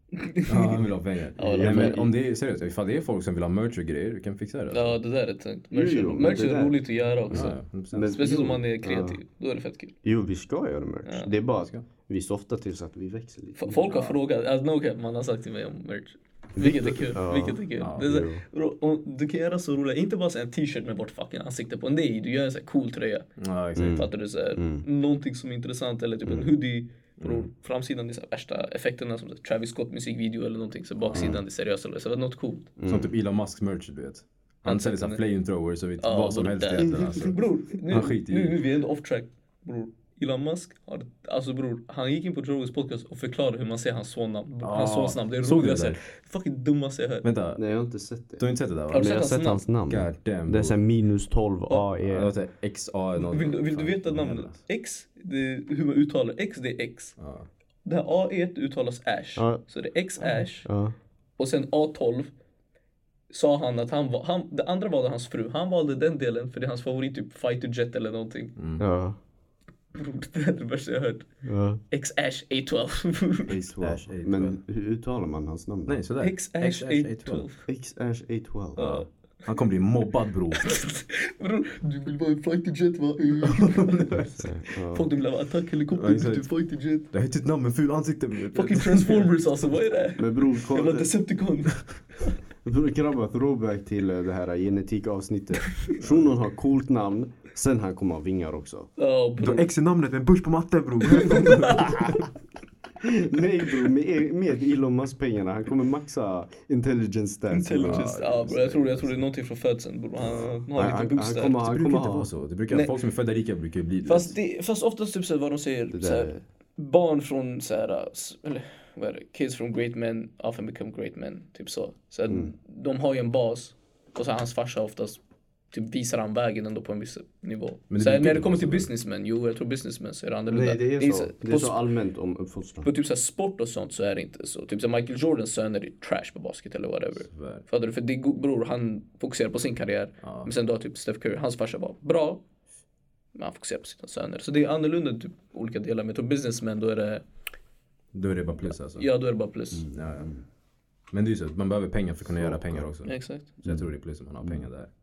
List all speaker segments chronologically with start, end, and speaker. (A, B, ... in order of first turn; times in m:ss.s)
0:00.2-0:02.0 A
0:00.5-0:05.0 B
0:01.4-0:02.1 C
0:04.7-0:09.9 A
0:05.7-0:09.2 C
0:07.3-0:08.2 B
0:10.0-0:14.2 C
0:11.0-0:11.3 A
0:13.6-0:23.3 A
0:16.6-0:18.4 C
0:17.8-0:18.1 B
0:23.4-0:24.1 B
0:23.7-0:24.8 C
0:23.9-0:32.7 A
0:26.2-0:26.5 C
0:27.2-0:27.5 B
0:31.0-0:31.4 B
0:31.1-0:31.4 C
0:32.8-0:33.1 C
0:32.9-0:38.6 B
0:34.6-0:35.2 A
0:36.0-0:47.3 A
0:44.6-0:46.0 B
0:47.2-0:47.6 B
0:47.6-0:52.3 C
0:48.4-0:49.2 B
0:48.9-0:49.6 A
0:49.9-0:50.8 B
0:52.0-0:54.6 B
0:53.2-0:57.2 A
0:57.2-0:57.5 B
0:57.8-1:00.7 A
0:59.4-0:59.6 C
1:00.2-1:00.9 C
1:01.4-1:02.3 A
1:03.3-1:08.5 A
1:08.6-1:08.8 B
1:08.8-1:09.2 C
1:09.9-1:11.3 A
1:11.4-1:11.8 C
1:11.9-1:13.6 A
1:13.4-1:16.0 C
1:13.8-1:14.6 B
1:15.9-1:17.4 B
1:16.2-1:17.6 A
1:17.7-1:19.0 C
1:18.8-1:19.0 A
1:18.8-1:20.7 B
1:20.5-1:27.1 A
1:23.4-1:24.4 B
1:24.4-1:25.1 C
1:25.9-1:26.5 B
1:27.1-1:29.3 B
1:28.5-1:32.4 A
1:30.2-1:31.1 C
1:32.6-1:38.9 C
1:39.0-1:39.7 A
1:39.4-1:42.2 B
1:41.1-1:42.2 A
1:43.0-1:48.1 C
1:47.5-1:51.6 A
1:47.8-1:49.2 B
1:50.3-1:52.3 C
1:51.6-1:54.3 B
1:52.7-1:52.9 A
1:54.0-2:05.2 A
1:55.9-1:56.4 C
2:02.3-2:02.5 C
2:05.7-2:11.8 A
2:07.9-2:08.9 B
2:10.5-2:12.9 C
2:12.8-2:22.4 A
2:17.2-2:17.6 B
2:20.2-2:20.5 B
2:23.3-2:27.2 A
2:28.1-2:29.1 B
2:28.9-2:29.8 A
2:29.7-2:30.4 C
2:29.9-2:30.3 B
2:31.1-2:34.9 B
2:32.3-2:32.9 C
2:33.0-2:33.5 A
2:33.6-2:33.9 C